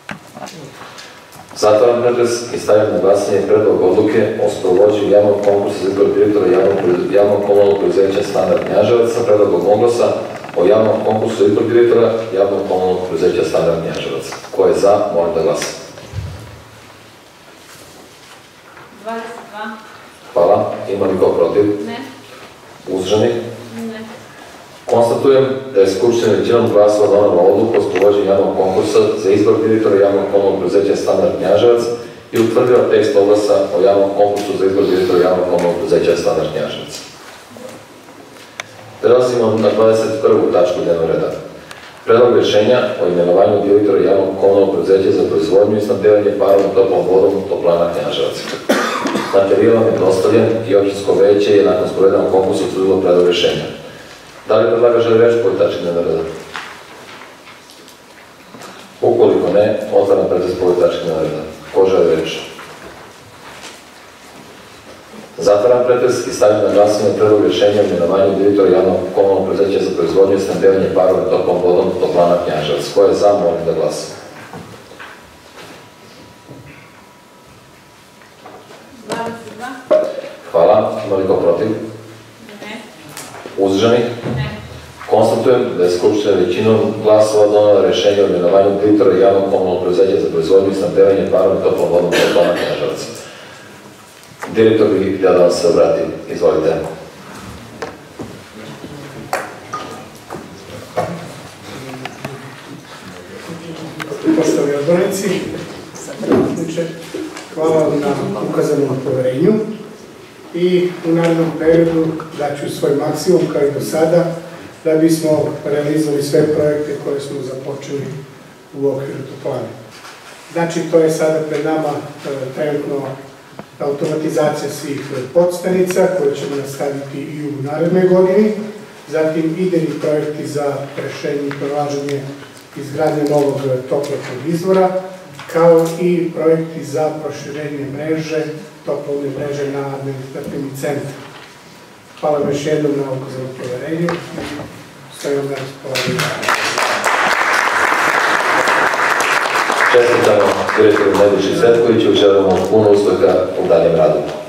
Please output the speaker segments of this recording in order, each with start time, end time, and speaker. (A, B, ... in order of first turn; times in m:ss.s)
0:01.5-0:15.8 A
0:18.9-0:19.7 B
0:20.3-0:21.8 A
0:21.8-0:22.0 B
0:22.8-0:23.4 A
0:23.7-0:24.0 B
0:24.8-0:37.0 A
0:39.0-0:41.4 A
0:42.0-0:48.6 A
0:49.3-0:53.7 A
0:54.4-0:56.3 A
0:59.0-1:02.5 A
1:05.4-1:14.1 A
1:19.0-1:19.8 B
1:20.4-1:21.8 A
1:22.4-1:22.8 B
1:23.6-1:24.2 A
1:25.0-1:33.1 A
1:34.4-1:36.8 A
1:44.2-1:45.5 C
1:46.2-1:46.9 C
1:47.5-1:49.6 C
1:50.5-1:54.3 C
1:54.8-1:58.1 C
1:58.7-1:59.7 C
2:00.5-2:03.1 C
2:03.8-2:14.9 C
2:15.4-2:21.2 C
2:22.2-2:26.6 C
2:29.9-2:34.3 A